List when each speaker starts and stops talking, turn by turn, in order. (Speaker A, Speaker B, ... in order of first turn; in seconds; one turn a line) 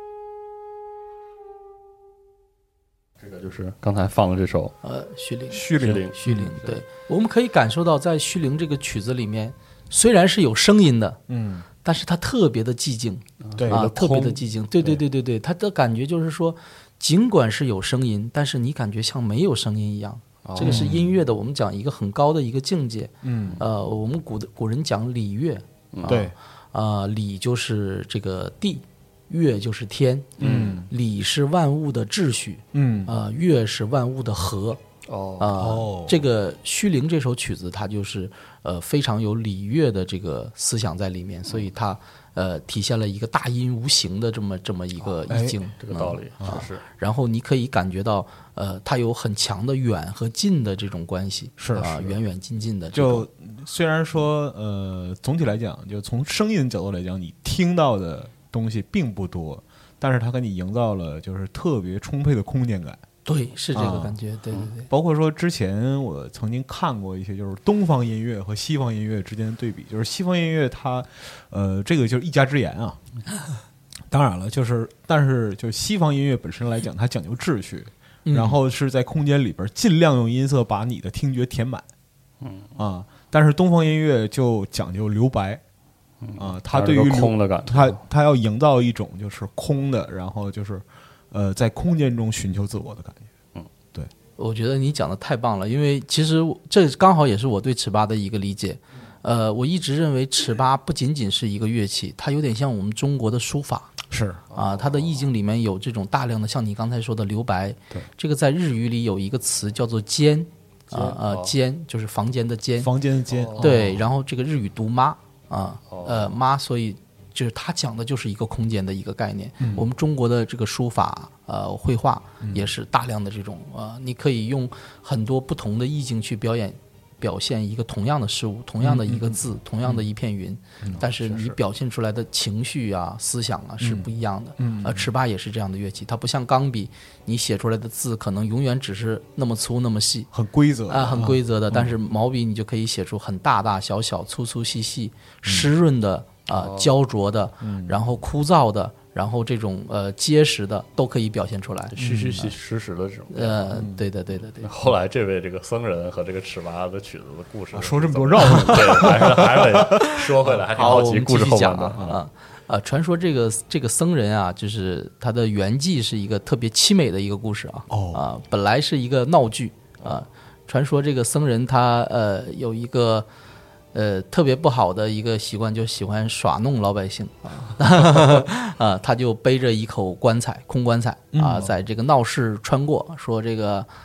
Speaker A: 3.2-4.7
Speaker B: 4.8-11.2
Speaker C: 5.5-6.4
Speaker A: 5.8-6.8
Speaker C: 11.3-11.7
Speaker B: 11.8-34.8
Speaker A: 13.4-15.0
Speaker C: 13.6-13.9
Speaker A: 20.4-20.9
Speaker C: 20.6-21.0
Speaker C: 23.2-23.6
Speaker A: 25.9-26.3
Speaker C: 26.1-26.3
Speaker A: 30.4-30.8
Speaker C: 30.4-30.9
Speaker C: 32.7-33.1
Speaker A: 35.1-35.5
Speaker B: 35.4-53.3
Speaker C: 35.6-36.2
Speaker C: 45.3-45.6
Speaker A: 45.8-46.8
Speaker C: 51.6-52.1
Speaker C: 52.9-63.0
Speaker B: 63.2-64.9
Speaker C: 63.7-64.2
Speaker C: 64.9-73.0
Speaker C: 74.1-81.8
Speaker B: 78.3-78.6
Speaker A: 82.4-82.7
Speaker C: 82.8-85.6
Speaker A: 86.2-88.0
Speaker C: 86.4-93.3
Speaker B: 94.4-103.9
Speaker C: 104.1-104.4
Speaker A: 104.5-105.2
Speaker B: 104.5-112.9
Speaker A: 110.9-111.5
Speaker C: 112.8-114.0
Speaker A: 113.3-113.7
Speaker B: 113.6-140.3
Speaker A: 115.9-116.3
Speaker C: 122.4-122.7
Speaker C: 128.8-130.0
Speaker A: 131.0-131.6
Speaker C: 133.8-135.1
Speaker C: 140.3-141.9
Speaker B: 140.9-152.0
Speaker A: 146.5-146.9
Speaker C: 147.6-148.0
Speaker A: 151.9-153.8
Speaker C: 152.0-152.5
Speaker B: 153.3-154.7
Speaker C: 153.7-154.0
Speaker A: 154.6-162.2
Speaker C: 157.7-160.2
Speaker B: 158.5-159.1
Speaker B: 160.7-173.3
Speaker C: 167.9-168.2
Speaker B: 173.9-183.9
Speaker C: 181.3-181.7